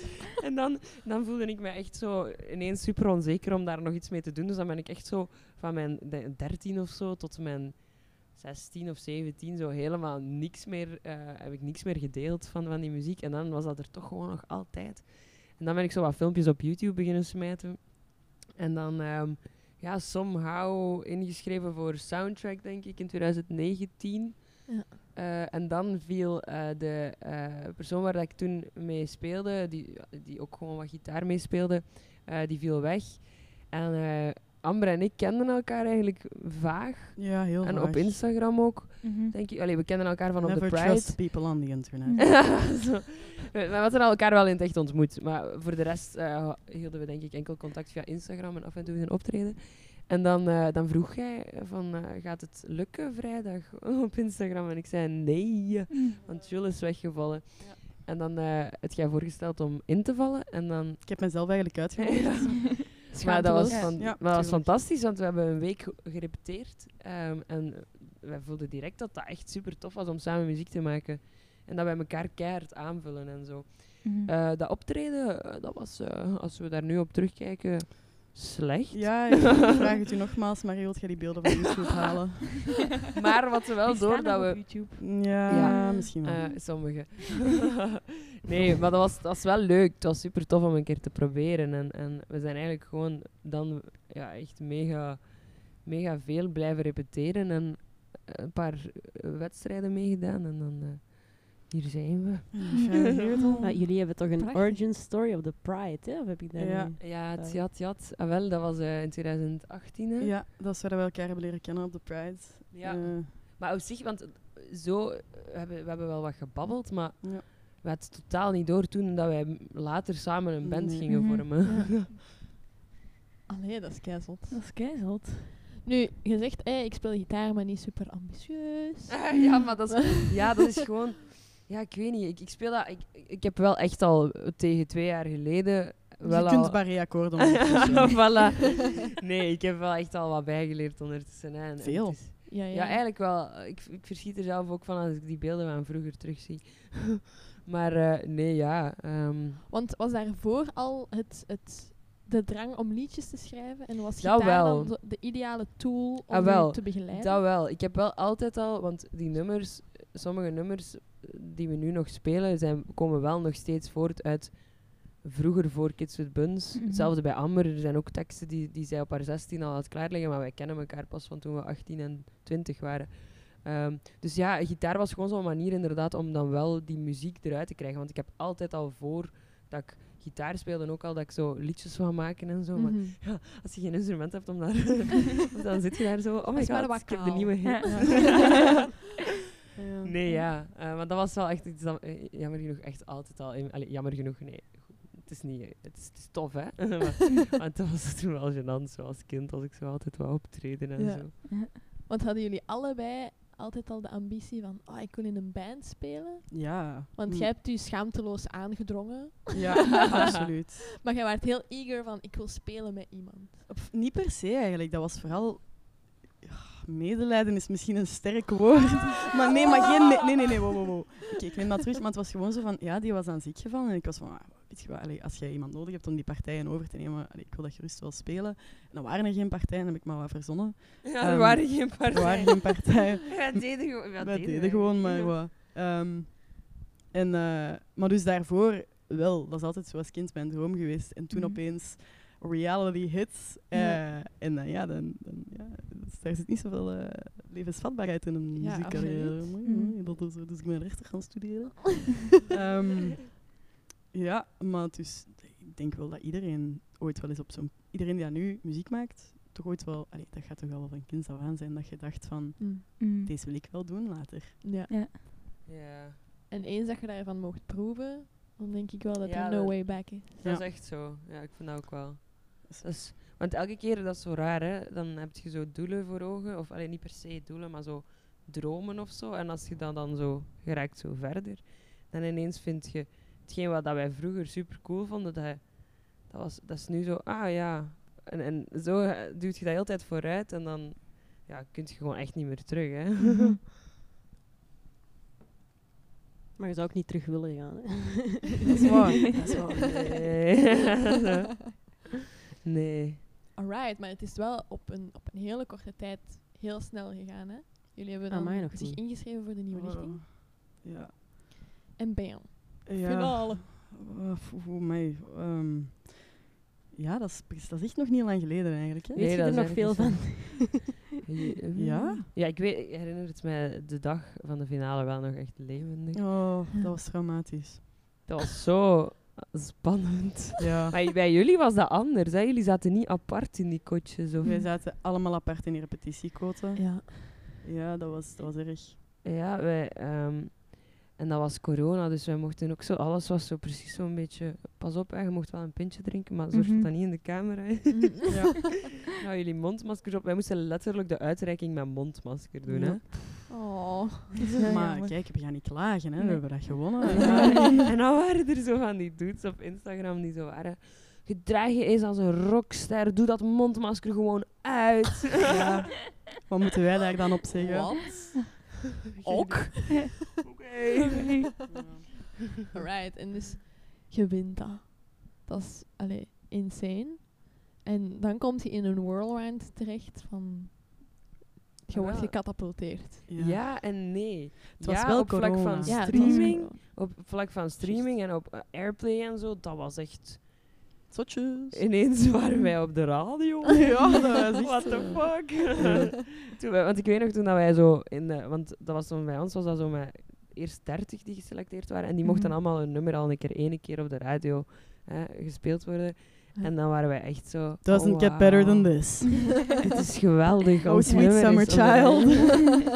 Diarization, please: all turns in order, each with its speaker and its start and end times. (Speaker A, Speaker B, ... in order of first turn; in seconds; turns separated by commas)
Speaker A: 0.4-79.7, Speaker B: 37.2-38.3, Speaker C: 39.0-39.4, Speaker B: 40.4-42.5, Speaker C: 55.9-56.2, Speaker B: 56.2-57.0, Speaker B: 57.6-57.9, Speaker B: 61.0-62.9, Speaker D: 63.1-64.1, Speaker C: 63.7-64.0, Speaker B: 63.9-64.8, Speaker C: 74.0-74.3, Speaker B: 78.9-82.8, Speaker A: 83.2-103.0, Speaker C: 83.8-85.9, Speaker B: 85.0-86.5, Speaker D: 85.5-86.1, Speaker B: 102.6-103.6, Speaker D: 102.7-104.9, Speaker E: 103.6-107.6, Speaker B: 106.6-107.0, Speaker A: 107.0-110.3, Speaker B: 110.2-113.3, Speaker A: 112.7-122.1, Speaker B: 117.2-117.5, Speaker B: 120.6-121.3, Speaker C: 121.1-121.5, Speaker D: 121.6-122.0, Speaker D: 123.5-124.6, Speaker C: 124.5-125.6, Speaker D: 125.8-129.5, Speaker A: 129.1-149.6, Speaker B: 136.2-138.6, Speaker B: 141.8-142.2, Speaker D: 142.5-143.0, Speaker D: 149.7-157.4, Speaker A: 154.2-154.9, Speaker A: 156.3-188.6, Speaker C: 166.7-167.2, Speaker D: 182.8-183.2, Speaker D: 186.5-188.8, Speaker C: 187.7-188.1, Speaker B: 187.9-188.5, Speaker B: 189.8-190.1, Speaker A: 190.0-201.3, Speaker D: 201.0-210.0, Speaker C: 201.5-201.8, Speaker B: 206.5-207.5, Speaker B: 209.5-210.9, Speaker D: 211.0-213.7, Speaker B: 213.7-253.4, Speaker A: 231.1-235.4, Speaker D: 241.3-241.6, Speaker D: 243.7-244.0, Speaker D: 248.6-249.6, Speaker C: 249.7-250.0, Speaker B: 254.1-264.6, Speaker D: 262.6-262.8, Speaker C: 263.0-263.3, Speaker D: 264.6-264.9, Speaker C: 264.9-265.2, Speaker A: 265.7-266.2, Speaker D: 266.5-270.3, Speaker A: 269.2-293.6, Speaker B: 270.4-270.7, Speaker B: 272.7-273.0, Speaker C: 293.2-293.6, Speaker E: 296.6-300.2, Speaker B: 298.7-299.4, Speaker A: 299.7-301.2, Speaker A: 302.6-303.2, Speaker D: 303.6-310.2, Speaker E: 308.3-309.0, Speaker B: 309.7-311.1, Speaker D: 311.9-313.6, Speaker B: 312.9-316.4, Speaker B: 316.9-319.4, Speaker E: 319.1-321.0, Speaker A: 319.2-326.5, Speaker B: 321.8-322.3, Speaker B: 326.1-327.9, Speaker A: 328.3-334.6, Speaker B: 330.6-331.0, Speaker B: 334.4-339.0, Speaker D: 336.8-337.1, Speaker A: 339.2-348.3, Speaker C: 346.5-346.9, Speaker D: 347.9-348.6, Speaker B: 348.3-348.7, Speaker A: 349.2-353.5, Speaker B: 352.7-353.0, Speaker D: 353.5-354.5, Speaker C: 354.6-355.2, Speaker B: 354.7-357.8, Speaker C: 356.2-357.7, Speaker D: 357.1-357.5, Speaker A: 357.2-365.9, Speaker B: 366.4-368.1, Speaker D: 367.6-370.3, Speaker A: 369.2-371.2, Speaker C: 371.1-371.5, Speaker B: 371.7-372.4, Speaker D: 372.7-381.3, Speaker D: 381.9-383.2, Speaker A: 381.9-390.7, Speaker B: 383.3-383.8, Speaker B: 384.8-386.6, Speaker D: 385.9-386.8, Speaker C: 386.2-386.5, Speaker B: 387.8-388.1, Speaker B: 391.1-391.9, Speaker A: 391.7-409.2, Speaker B: 393.9-396.1, Speaker D: 394.8-395.2, Speaker C: 402.2-402.6, Speaker B: 407.8-409.8, Speaker A: 409.8-412.8, Speaker B: 410.9-412.9, Speaker C: 411.1-411.6